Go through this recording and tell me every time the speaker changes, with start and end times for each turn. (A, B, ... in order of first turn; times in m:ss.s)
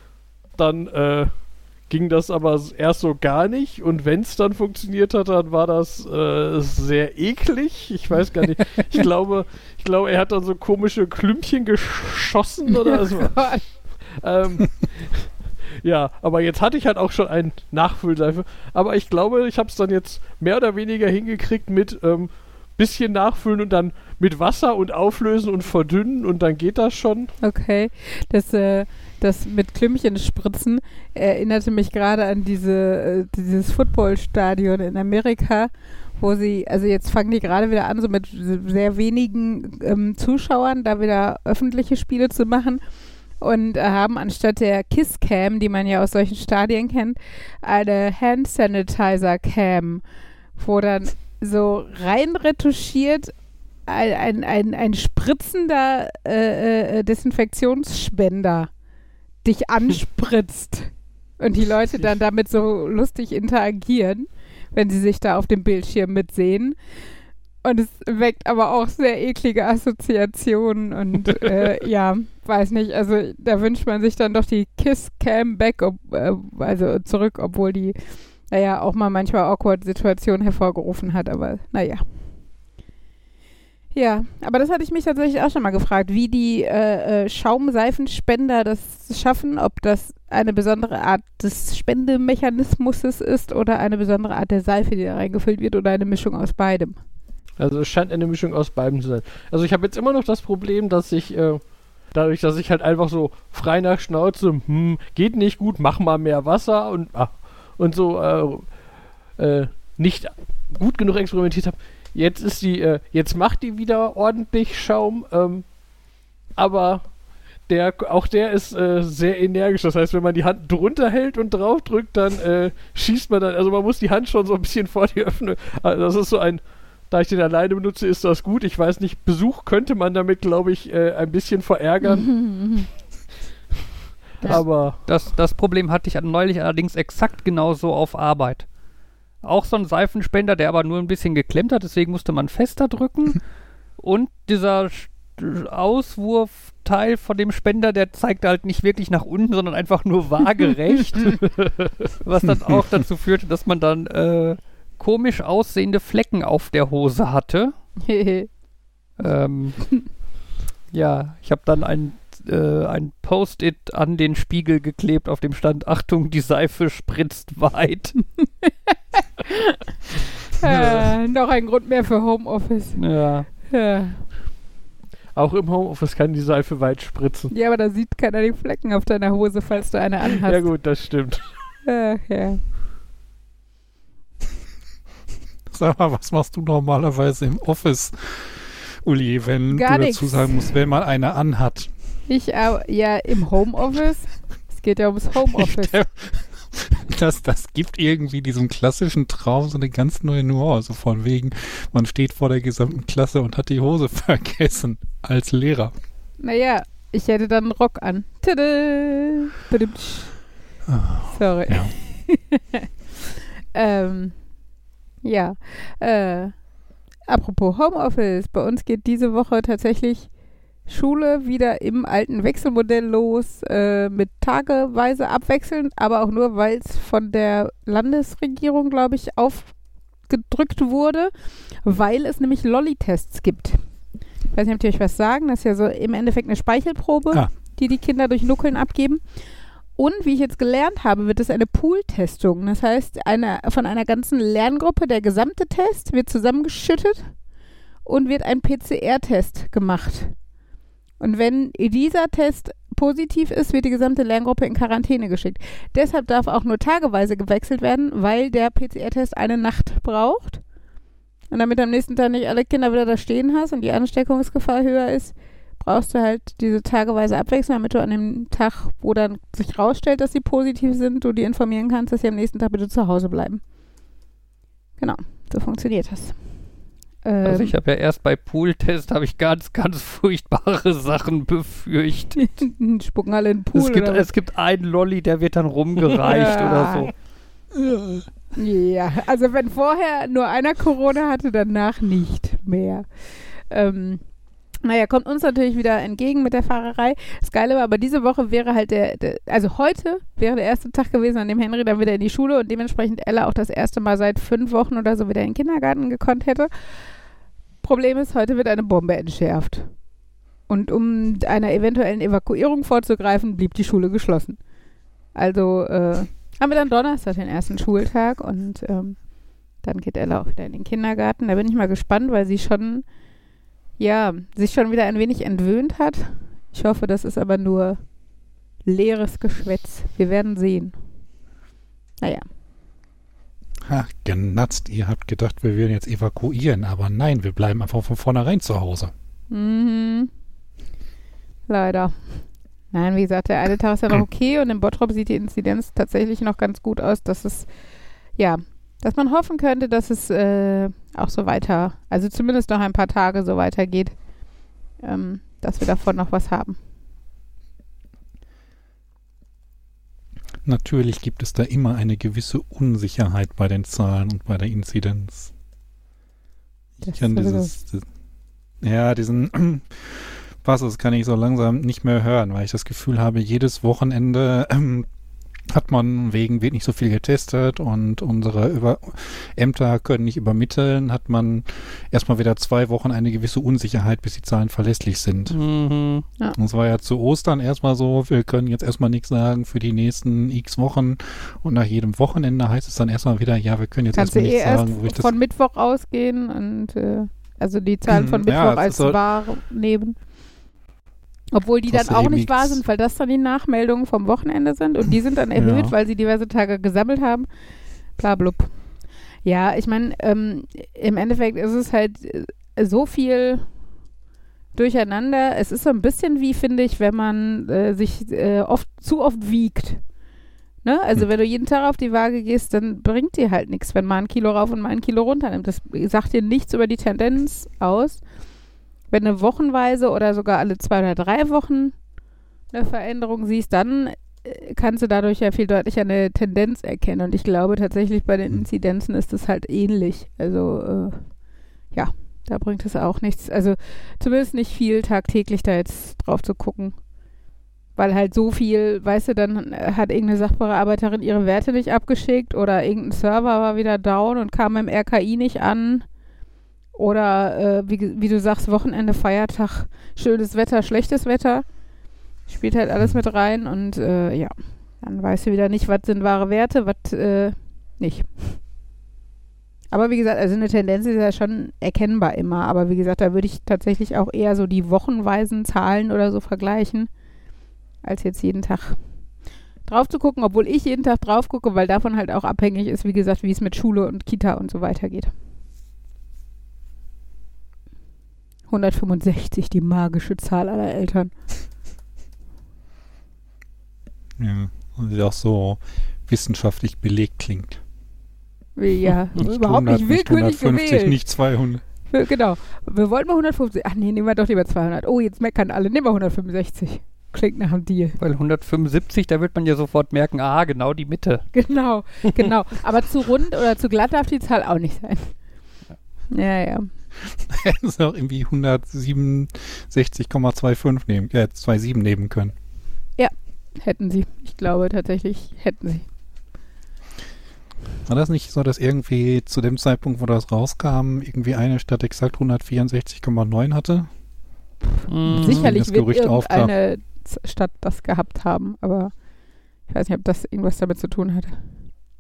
0:00.6-0:13.5 A
0:12.8-0:13.6 B
0:14.1-0:27.3 A
0:27.4-0:42.8 B
0:43.4-0:50.0 B
0:50.6-0:53.3 B
0:53.9-0:58.7 B
0:59.4-1:06.8 B
1:07.6-1:18.0 B
1:18.5-1:22.0 B
1:23.9-1:37.0 B
1:37.6-1:48.7 A
1:49.4-1:55.6 A
1:56.6-1:57.1 A
1:57.7-2:12.5 A
2:12.0-2:12.9 B
2:14.4-2:15.0 A
2:14.5-2:18.7 C
2:19.4-2:23.4 C
2:24.0-2:31.4 C
2:32.2-2:37.7 C
2:38.0-2:38.5 B
2:39.2-2:40.0 C
2:40.9-2:48.2 C
2:48.6-2:49.8 B
2:50.6-2:53.0 B
2:53.0-2:53.5 C
2:53.6-2:54.2 B
2:55.4-2:57.5 A
2:57.5-3:00.7 B
3:00.4-3:01.5 A
3:01.8-3:02.6 B
3:05.7-3:11.9 D
3:09.7-3:10.7 B
3:12.3-3:16.0 B
3:15.5-3:25.9 D
3:26.4-3:30.3 B
3:30.9-3:31.9 D
3:31.4-3:32.9 B
3:33.7-3:34.4 B
3:35.2-3:36.6 B
3:37.3-3:40.3 B
3:40.9-3:49.7 B
3:50.3-3:51.3 B
3:51.8-3:53.8 B
3:54.5-3:59.2 B
4:00.0-4:07.3 B
4:08.0-4:10.4 B
4:11.2-4:20.6 B
4:21.5-4:33.6 B
4:35.0-4:36.4 B
4:37.2-4:37.7 B
4:37.4-4:42.4 C
4:42.4-4:44.3 B
4:43.8-4:47.1 C
4:46.2-4:47.1 B
4:47.7-4:48.3 D
4:48.6-4:53.1 B
4:53.7-4:54.2 B
4:54.8-5:06.7 B
5:07.8-5:09.9 B
5:10.7-5:14.6 B
5:15.4-5:19.2 B
5:19.8-5:23.0 B
5:24.0-5:28.0 B
5:28.8-5:31.0 B
5:33.8-5:39.1 D
5:39.5-5:40.3 B
5:41.7-5:47.7 B
5:48.4-5:54.2 B
5:55.0-5:56.8 B
6:00.6-6:05.5 D
6:07.0-6:07.7 B
6:07.1-6:08.0 D
6:08.8-6:15.1 D
6:15.7-6:25.6 D
6:25.5-6:26.3 C
6:26.6-6:35.3 D
6:34.1-6:40.2 B
6:38.1-6:39.2 D
6:41.5-6:47.5 B
6:41.9-6:42.8 D
6:45.6-6:45.9 D
6:48.2-6:48.7 B
6:49.4-6:53.7 B
6:54.8-7:00.0 B
7:00.8-7:08.2 B
7:09.1-7:12.0 B
7:12.7-7:21.2 B
7:21.9-7:27.0 B
7:28.0-7:36.1 B
7:37.0-7:41.6 B
7:42.5-7:48.6 B
7:49.9-7:57.1 B
7:58.0-7:59.0 B
7:59.8-8:05.3 B
8:08.7-8:11.3 B
8:14.4-8:17.8 D
8:18.8-8:21.2 B
8:19.4-8:21.8 D
8:22.1-8:28.2 B
8:28.2-8:31.5 C
8:31.5-8:35.3 B
8:36.3-8:36.9 B
8:37.3-8:42.6 D
8:43.2-8:46.0 B
8:48.1-8:54.1 D
8:55.1-8:55.7 C
8:55.3-8:56.7 D
8:55.4-8:59.1 B
8:59.9-9:01.6 B